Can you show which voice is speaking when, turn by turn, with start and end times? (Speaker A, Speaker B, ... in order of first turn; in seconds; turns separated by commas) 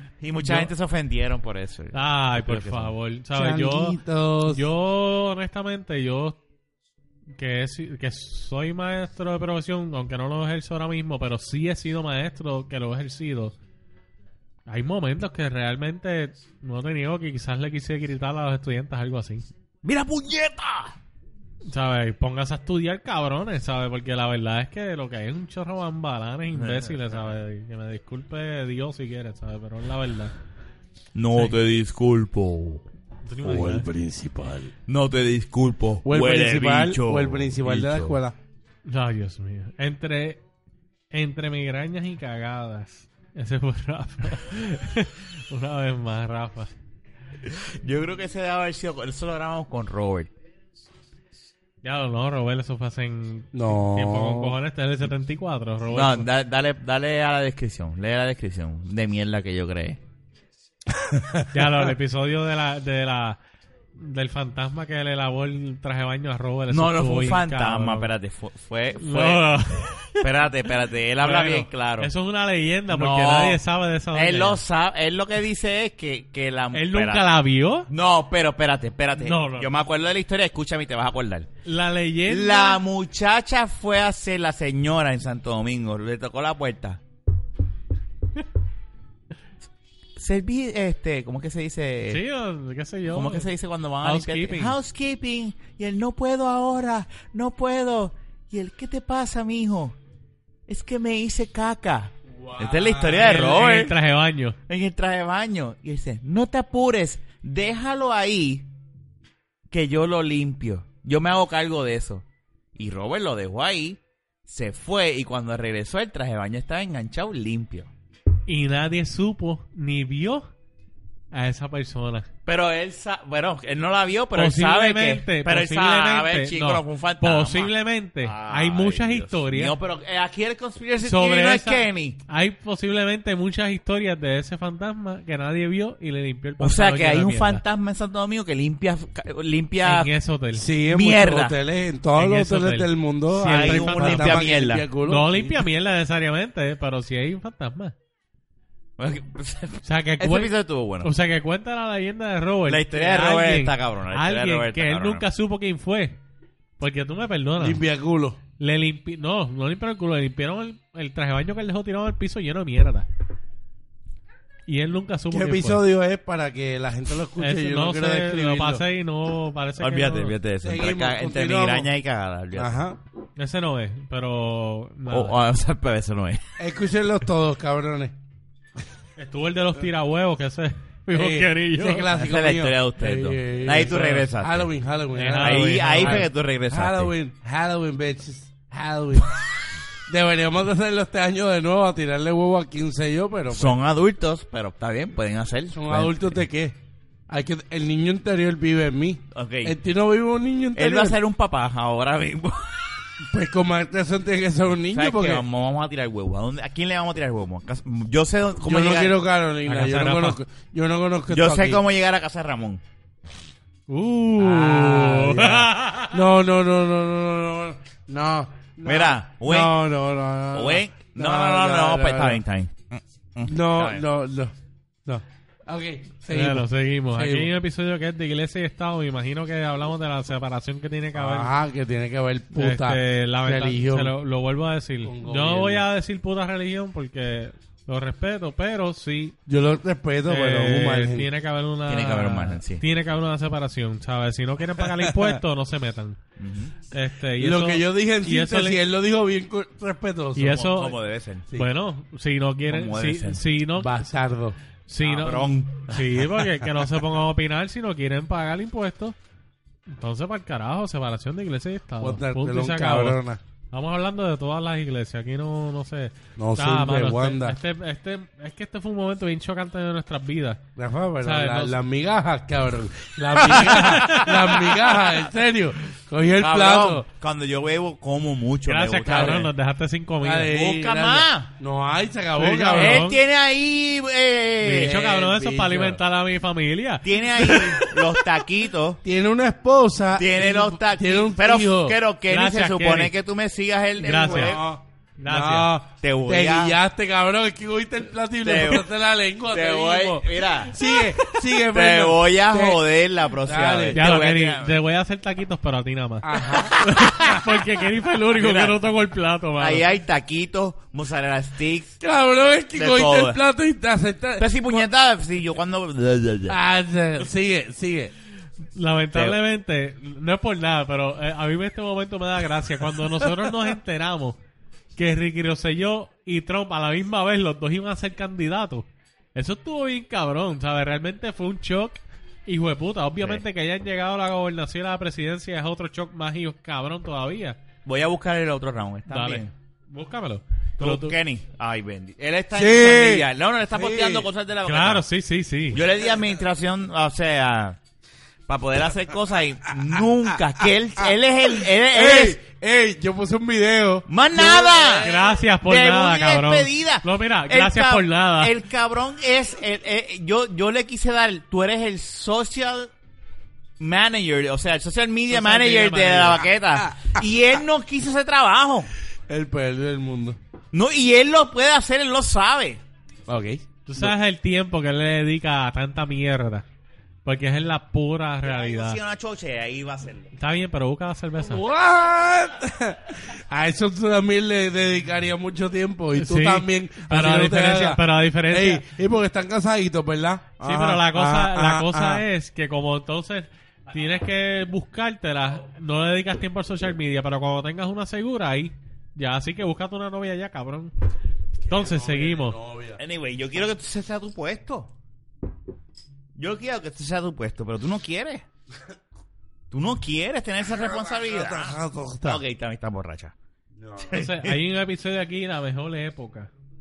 Speaker A: 0.2-2.9, Speaker B: 0.4-0.7, Speaker B: 1.9-6.4, Speaker C: 3.4-4.6, Speaker B: 7.4-13.6, Speaker B: 14.7-19.4, Speaker A: 19.8-20.9, Speaker B: 21.7-30.3, Speaker A: 26.6-26.9, Speaker A: 31.1-32.8, Speaker B: 33.2-33.9, Speaker C: 33.4-34.7, Speaker A: 34.9-38.2, Speaker C: 36.0-38.4, Speaker B: 38.9-40.4, Speaker B: 41.1-46.7, Speaker A: 47.4-50.3, Speaker B: 51.8-56.3, Speaker C: 53.5-54.6, Speaker A: 55.9-60.0, Speaker C: 60.9-61.7, Speaker B: 61.5-63.4, Speaker B: 64.0-68.1, Speaker A: 66.7-69.5, Speaker B: 69.0-70.3, Speaker A: 70.2-72.1, Speaker B: 71.2-74.6, Speaker A: 72.9-73.6, Speaker A: 74.1-77.2, Speaker B: 76.7-77.9, Speaker A: 77.9-81.5, Speaker B: 79.2-79.7, Speaker B: 81.7-82.8, Speaker A: 82.3-87.0, Speaker A: 90.2-92.2, Speaker B: 92.1-93.5, Speaker A: 93.1-100.0, Speaker B: 94.0-94.8, Speaker A: 100.7-104.0, Speaker C: 102.3-103.4, Speaker B: 103.2-104.6, Speaker A: 104.7-108.7, Speaker A: 109.7-112.2, Speaker A: 112.8-117.9, Speaker B: 118.5-120.5, Speaker B: 121.3-122.3, Speaker A: 122.5-132.2, Speaker B: 124.3-129.7, Speaker B: 131.0-137.6, Speaker A: 136.6-140.1, Speaker B: 139.8-140.7, Speaker C: 140.5-145.7, Speaker A: 140.9-141.6, Speaker B: 142.2-144.5, Speaker A: 143.4-144.9, Speaker B: 145.0-147.9, Speaker A: 149.0-151.1, Speaker B: 149.8-156.2, Speaker A: 152.7-155.2, Speaker B: 156.8-157.8, Speaker C: 157.6-158.4, Speaker B: 158.6-163.1, Speaker B: 164.7-165.8, Speaker C: 165.3-168.8, Speaker B: 167.4-170.3, Speaker A: 169.8-172.8, Speaker C: 170.6-171.9, Speaker C: 172.5-173.0, Speaker B: 173.4-175.4, Speaker A: 175.1-176.4, Speaker C: 176.6-178.2, Speaker B: 179.2-182.1, Speaker C: 181.1-189.4, Speaker A: 182.1-184.7, Speaker B: 185.2-186.3, Speaker A: 185.3-187.1, Speaker C: 190.1-193.8, Speaker A: 193.5-196.4, Speaker C: 195.7-196.8, Speaker C: 197.3-201.2, Speaker A: 199.3-199.8, Speaker A: 200.8-203.1, Speaker C: 203.2-205.4, Speaker A: 204.9-209.2, Speaker C: 208.6-211.8, Speaker B: 209.7-210.4, Speaker A: 211.3-212.8, Speaker B: 213.9-216.2, Speaker C: 214.4-222.4, Speaker A: 218.8-219.8, Speaker A: 220.5-224.1, Speaker C: 223.4-224.5, Speaker C: 225.1-227.5, Speaker B: 226.3-231.5, Speaker C: 231.2-234.1, Speaker B: 232.5-239.4, Speaker C: 235.1-235.9, Speaker C: 239.5-241.3, Speaker B: 240.3-246.2, Speaker A: 241.9-242.8, Speaker C: 244.9-245.4, Speaker A: 246.4-246.7, Speaker B: 246.9-248.8, Speaker C: 247.4-250.6, Speaker B: 250.4-251.0, Speaker A: 250.5-251.5, Speaker B: 251.6-254.1, Speaker A: 252.7-253.4, Speaker C: 253.8-254.6, Speaker B: 254.9-259.2, Speaker A: 255.0-256.3, Speaker B: 259.9-263.2, Speaker C: 262.0-263.4, Speaker B: 263.7-270.6, Speaker C: 266.4-267.6, Speaker C: 270.8-277.1, Speaker B: 271.2-271.8, Speaker B: 273.4-274.6, Speaker A: 273.5-274.8, Speaker A: 276.4-279.5, Speaker B: 278.7-280.5, Speaker C: 279.1-279.4, Speaker C: 280.2-283.1, Speaker A: 280.5-281.5, Speaker B: 282.4-283.2, Speaker A: 282.8-285.2, Speaker B: 284.6-288.0, Speaker C: 284.6-286.0, Speaker A: 287.0-289.0, Speaker C: 289.0-292.0, Speaker A: 290.2-294.6, Speaker B: 292.3-293.1, Speaker B: 294.0-294.6, Speaker C: 294.3-302.8, Speaker B: 295.2-295.7, Speaker A: 296.0-296.8, Speaker A: 298.4-298.9, Speaker A: 299.5-304.8, Speaker C: 303.4-304.0, Speaker B: 303.9-309.9, Speaker C: 306.2-306.8, Speaker A: 306.8-307.4, Speaker A: 308.3-308.8, Speaker A: 309.6-312.0, Speaker C: 312.0-314.8, Speaker A: 312.7-313.4, Speaker A: 314.4-316.6, Speaker C: 316.5-318.1, Speaker B: 318.8-324.4, Speaker B: 325.0-337.6, Speaker A: 337.9-339.5, Speaker B: 339.1-341.2, Speaker A: 340.8-345.0, Speaker C: 342.5-344.3, Speaker B: 344.6-345.8, Speaker A: 345.7-347.8, Speaker A: 348.5-352.4, Speaker C: 351.1-355.4, Speaker A: 354.1-355.1, Speaker B: 355.0-358.5, Speaker A: 355.6-362.9, Speaker A: 363.8-368.9, Speaker B: 365.3-366.4, Speaker C: 369.3-370.4, Speaker A: 370.7-372.8, Speaker C: 373.3-374.1, Speaker B: 373.9-376.6, Speaker B: 377.2-379.0, Speaker A: 378.4-380.3, Speaker B: 380.4-381.7, Speaker C: 381.4-392.2, Speaker B: 386.1-388.9, Speaker B: 390.6-400.9, Speaker C: 401.6-403.0, Speaker B: 401.7-402.6, Speaker A: 403.0-404.9, Speaker A: 406.4-408.4, Speaker A: 409.7-413.3, Speaker C: 410.7-412.4, Speaker C: 413.8-414.1, Speaker A: 414.0-414.6, Speaker B: 414.1-416.5